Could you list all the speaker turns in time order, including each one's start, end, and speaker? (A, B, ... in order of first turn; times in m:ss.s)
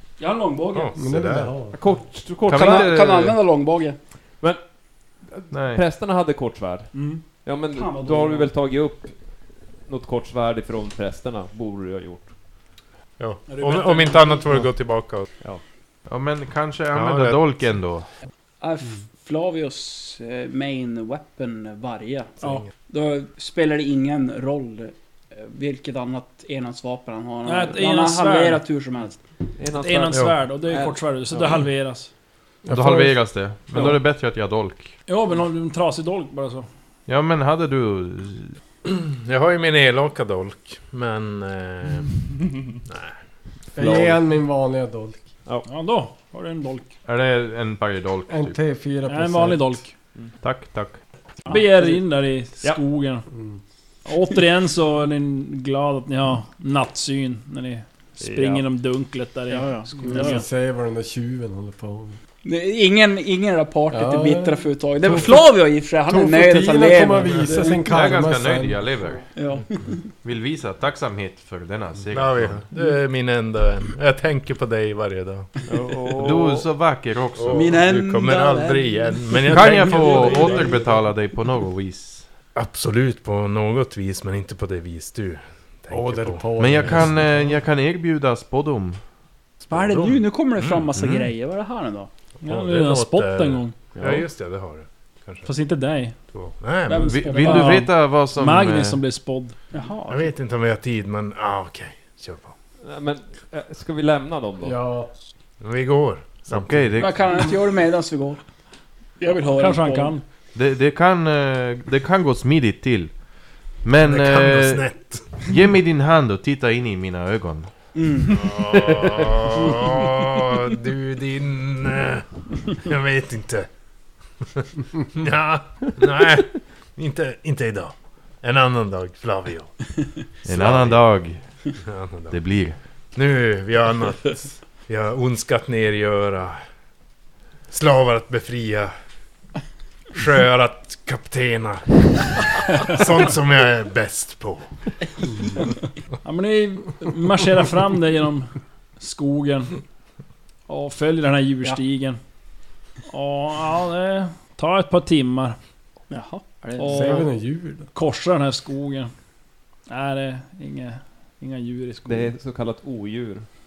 0:00.2-0:01.0 A
0:00.7-0:01.5 B
0:01.0-0:01.8 C
0:01.7-0:03.0 D
0:02.5-0:03.4 E
0:02.5-0:04.0 A
0:05.2-0:09.2 D
0:05.5-0:05.8 E
0:06.9-0:07.2 F
0:07.7-0:08.5 A
0:09.8-0:12.3 D
0:13.2-0:15.3 B
0:13.5-0:14.5 F
0:16.1-0:18.1 E
0:16.9-0:17.4 B
0:18.6-0:29.2 A
0:27.4-0:28.6 F
0:29.6-0:31.6 D
0:29.8-0:32.1 F
0:32.6-0:33.4 C
0:32.7-0:34.9 E
0:35.1-0:36.7 F
0:37.1-0:38.6 E
0:38.8-0:43.2 B
0:43.7-0:44.2 D
0:43.8-0:45.2 C
0:45.6-0:46.9 F
0:47.0-0:48.6 E
0:48.3-0:49.9 C
0:49.1-0:49.9 F
0:50.4-0:51.1 E
0:51.5-0:53.3 F
0:53.3-0:53.6 C
0:54.0-1:00.4 F
0:58.2-0:58.7 D
0:59.5-1:00.4 A
1:00.0-1:02.2 C
1:02.4-1:07.9 A
1:03.9-1:05.4 C
1:06.1-1:08.8 C
1:07.8-1:09.3 E
1:09.3-1:10.1 A
1:10.2-1:12.7 E
1:12.1-1:15.5 B
1:15.7-1:16.7 D
1:16.2-1:17.8 E
1:17.4-1:20.7 B
1:17.5-1:20.8 A
1:19.5-1:22.3 E
1:22.6-1:26.5 B
1:25.9-1:27.6 C
1:26.6-1:29.0 E
1:29.6-1:32.1 A
1:29.7-1:30.8 B
1:30.9-1:31.3 E
1:32.4-1:35.5 B
1:32.4-1:33.7 F
1:34.0-1:34.3 D
1:35.4-1:36.2 F
1:36.3-1:37.2 B
1:36.9-1:37.8 A
1:36.9-1:39.0 E
1:37.4-1:39.6 F
1:39.7-1:40.3 A
1:40.1-1:42.5 B
1:42.8-1:44.8 D
1:44.6-1:45.1 C
1:45.6-1:46.9 B
1:46.5-1:47.5 E
1:47.0-1:48.4 A
1:49.2-1:50.2 A
1:49.5-1:50.2 F
1:50.5-1:57.9 E
1:54.0-1:55.5 B
1:58.0-1:58.4 A
1:58.3-2:03.7 B
2:05.1-2:11.0 B
2:10.4-2:11.6 E
2:11.8-2:12.4 B
2:12.3-2:12.8 E
2:13.2-2:16.6 B
2:17.7-2:18.9 B
2:20.1-2:24.7 B
2:26.2-2:29.8 F
2:30.7-2:32.2 F
2:33.1-2:35.6 F
2:36.1-2:37.2 A
2:36.8-2:37.4 F
2:36.8-2:37.9 C
2:37.9-2:39.1 F
2:39.9-2:42.3 F
2:42.0-2:43.5 D